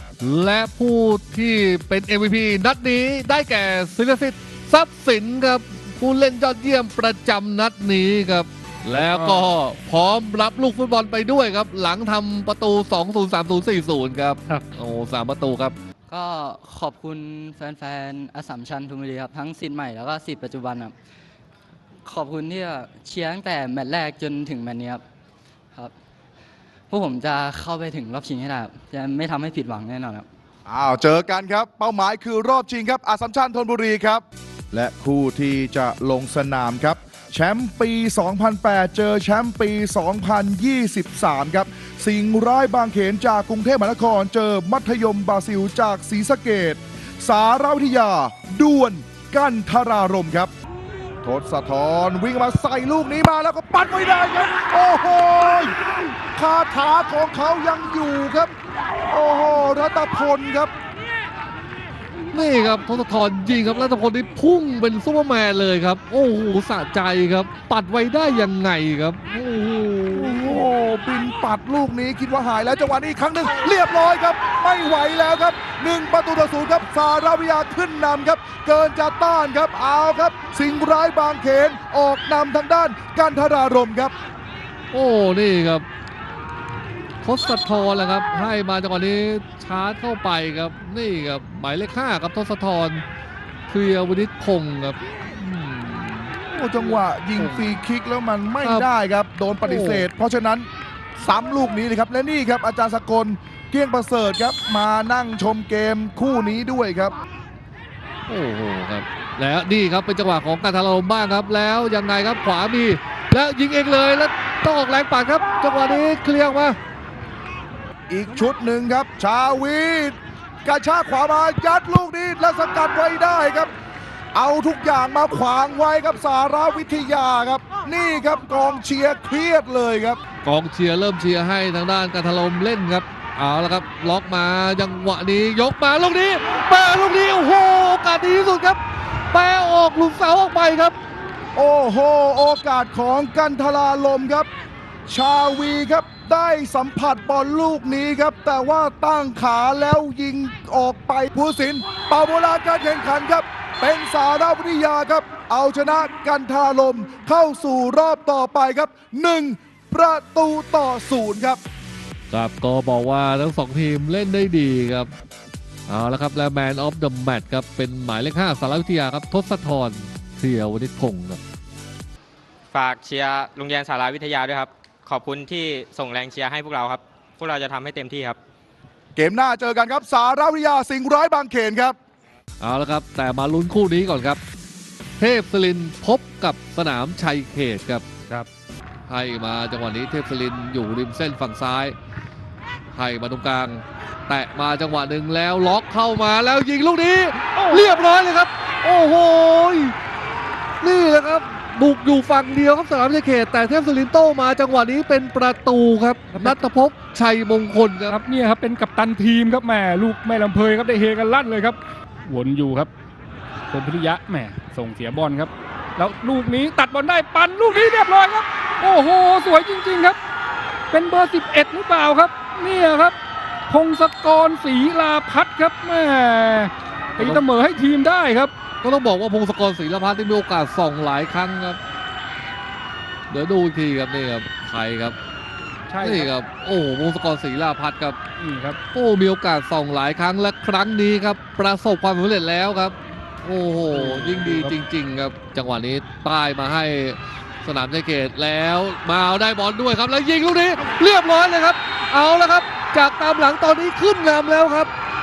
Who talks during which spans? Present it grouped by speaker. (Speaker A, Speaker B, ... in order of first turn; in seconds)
Speaker A: 0.2-15.8, 62.3-70.7, 84.9-85.8, 87.2-93.0, 93.7-96.3, 97.3-97.8, 98.6-98.9, 99.6-100.1, 108.3-116.8, 130.4-138.8, 139.3-140.9, 162.3-165.1, 165.9-171.4, 182.6-184.4, 185.2-188.0, 189.1-191.9, 192.9-199.9, 200.8-208.2, 228.8-231.8, 233.3-235.2, 236.0-238.2, 238.9-254.9
Speaker B: 8.9-9.5, 197.6-198.0, 206.3-206.6, 208.1-212.9, 213.7-220.2, 220.9-223.2, 223.7-228.5, 235.9-236.3, 238.4-238.8, 243.9-244.7
Speaker C: 16.1-20.9, 22.0-25.0, 26.9-30.3
Speaker D: 30.6-50.5, 51.2-55.7, 56.3-58.5, 59.1-60.7, 70.1-84.1, 96.5-107.2, 118.1-123.7, 124.3-130.2, 141.5-144.5, 145.1-161.6, 179.2-181.9
Speaker E: 172.7-178.4